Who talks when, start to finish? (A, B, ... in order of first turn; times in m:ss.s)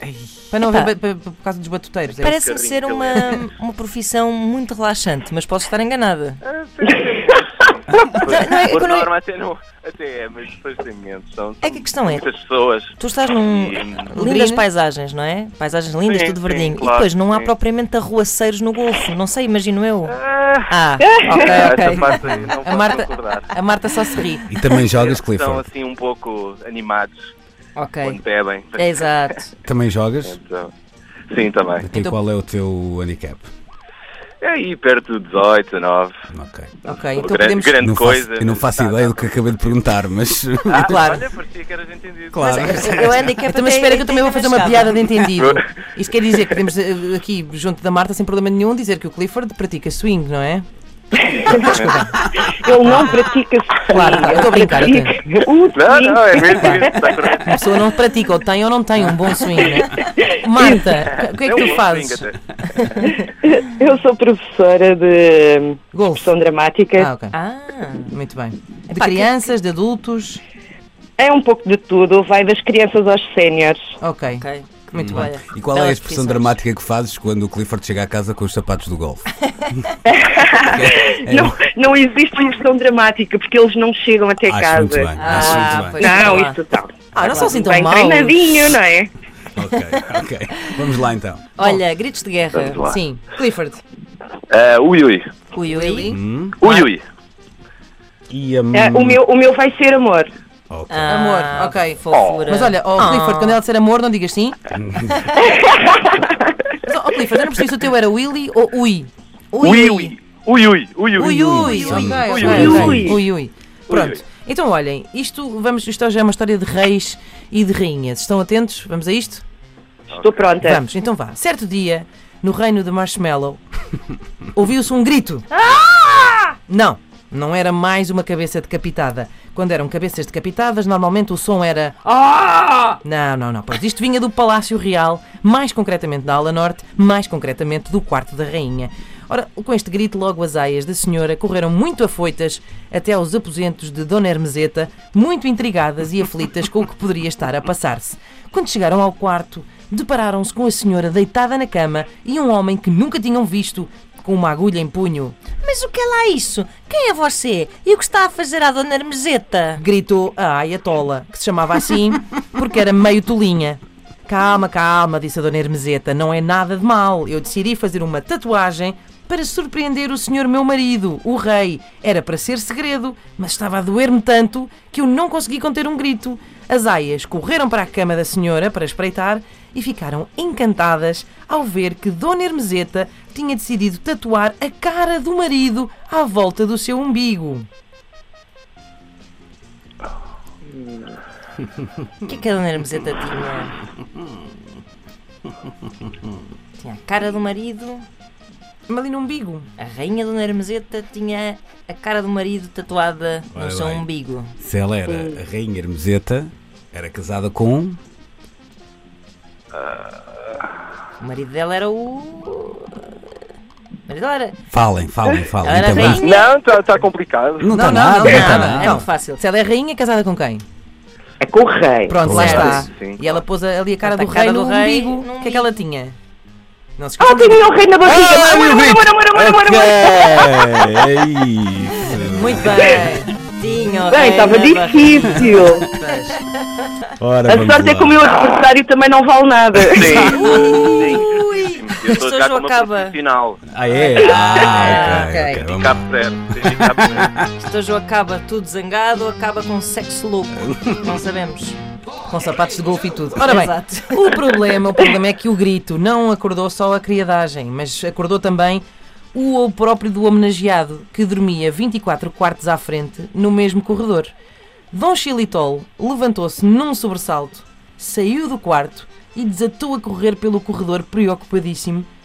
0:00.5-0:02.4 A
0:02.2-0:06.4 B
0:02.2-0:03.5 C
0:06.4-0:14.2 C
0:08.2-0:09.1 B
0:11.6-0:12.3 B
0:13.0-0:20.2 B
0:14.1-0:14.7 A
0:16.0-0:17.5 C
0:20.1-0:23.5 C
0:20.7-0:22.3 B
0:21.0-0:21.7 D
0:22.6-0:24.5 A
0:24.5-0:25.7 E
0:24.8-0:27.3 C
0:27.8-0:28.2 B
0:28.0-0:29.4 C
0:28.8-0:29.5 B
0:29.6-0:30.4 E
0:30.2-0:30.7 C
0:31.3-0:31.9 C
0:31.8-0:33.5 E
0:31.9-0:32.2 A
0:34.4-0:36.1 C
0:36.3-0:36.7 E
0:36.8-0:37.8 A
0:37.1-0:39.7 C
0:37.8-0:41.2 E
0:40.7-0:43.0 C
0:40.9-0:41.2 A
0:42.3-0:43.2 E
0:42.4-0:45.0 B
0:43.4-0:50.6 A
0:45.2-0:45.6 C
0:46.3-0:46.6 C
0:51.2-0:51.8 D
0:51.4-0:52.2 A
0:51.5-0:52.0 C
0:52.4-0:57.4 D
0:53.9-0:55.1 A
0:55.7-0:57.7 C
0:56.4-0:56.8 A
0:57.4-1:02.3 A
0:59.8-1:01.0 D
1:01.0-1:03.2 C
1:03.0-1:07.1 D
1:05.9-1:06.3 A
1:07.0-1:07.4 A
1:07.3-1:08.1 B
1:08.1-1:10.4 A
1:08.9-1:09.3 B
1:11.2-1:13.9 D
1:14.0-1:15.3 A
1:14.4-1:16.6 B
1:15.0-1:19.4 E
1:20.1-1:29.1 D
1:20.6-1:21.6 E
1:24.5-1:26.3 E
1:25.2-1:26.6 B
1:25.3-1:26.3 A
1:27.1-1:28.5 A
1:27.2-1:27.5 B
1:29.6-1:31.5 E
1:31.6-1:32.8 B
1:32.5-1:33.0 C
1:32.9-1:33.8 A
1:34.5-1:35.3 C
1:35.5-1:36.2 B
1:35.6-1:36.8 A
1:36.1-1:36.6 E
1:36.6-1:37.0 C
1:38.3-1:39.2 E
1:38.7-1:40.3 D
1:40.7-1:41.2 E
1:40.9-1:43.6 B
1:41.1-1:44.6 A
1:42.1-1:42.5 C
1:44.7-1:45.2 E
1:45.2-1:45.5 B
1:45.4-1:46.4 D
1:46.8-1:50.1 A
1:49.6-1:53.2 C
1:51.2-1:59.4 A
1:51.4-1:52.8 B
1:51.7-1:53.1 E
1:52.3-1:53.2 D
1:53.9-1:54.2 C
2:00.1-2:00.5 C
2:00.1-2:00.8 D
2:00.6-2:03.6 A
2:04.5-2:05.5 A
2:05.6-2:06.4 B
2:06.7-2:12.1 A
2:12.1-2:13.0 B
2:13.0-2:35.4 A
2:35.6-2:39.8 B
2:39.8-3:07.7 A
3:12.2-3:13.8 B
3:16.8-3:18.1 B
3:18.9-3:19.7 A
3:19.8-3:24.5 B
3:23.5-3:28.0 E
3:25.1-3:25.4 D
3:29.7-3:30.0 C
3:31.2-3:33.0 B
3:34.1-3:34.6 B
3:34.7-3:36.2 E
3:35.6-3:36.5 B
3:36.1-3:37.8 C
3:37.6-3:39.0 E
3:37.7-3:40.6 A
3:38.2-3:39.4 B
3:41.4-3:42.2 D
3:42.1-3:46.2 A
3:42.2-3:42.8 E
3:42.3-3:42.8 B
3:42.3-3:43.4 C
3:44.0-3:45.7 B
3:47.0-3:47.6 A
3:47.2-3:51.0 D
3:48.0-3:52.9 E
3:52.2-3:53.3 A
3:53.5-3:55.6 B
3:54.1-3:55.9 D
3:55.3-3:55.8 E
3:56.0-3:56.4 A
3:56.3-3:56.7 B
3:57.2-3:58.2 E
3:57.5-4:00.4 D
3:59.8-4:00.8 E
3:59.9-4:03.6 C
4:00.3-4:03.2 B
4:03.7-4:06.0 E
4:03.9-4:05.3 B
4:04.8-4:07.3 C
4:05.1-4:05.6 A
4:06.6-4:07.5 E
4:07.6-4:11.8 B
4:10.6-4:11.2 E
4:12.3-4:18.8 A
4:13.4-4:14.3 B
4:19.3-4:24.3 A
4:24.9-4:32.1 A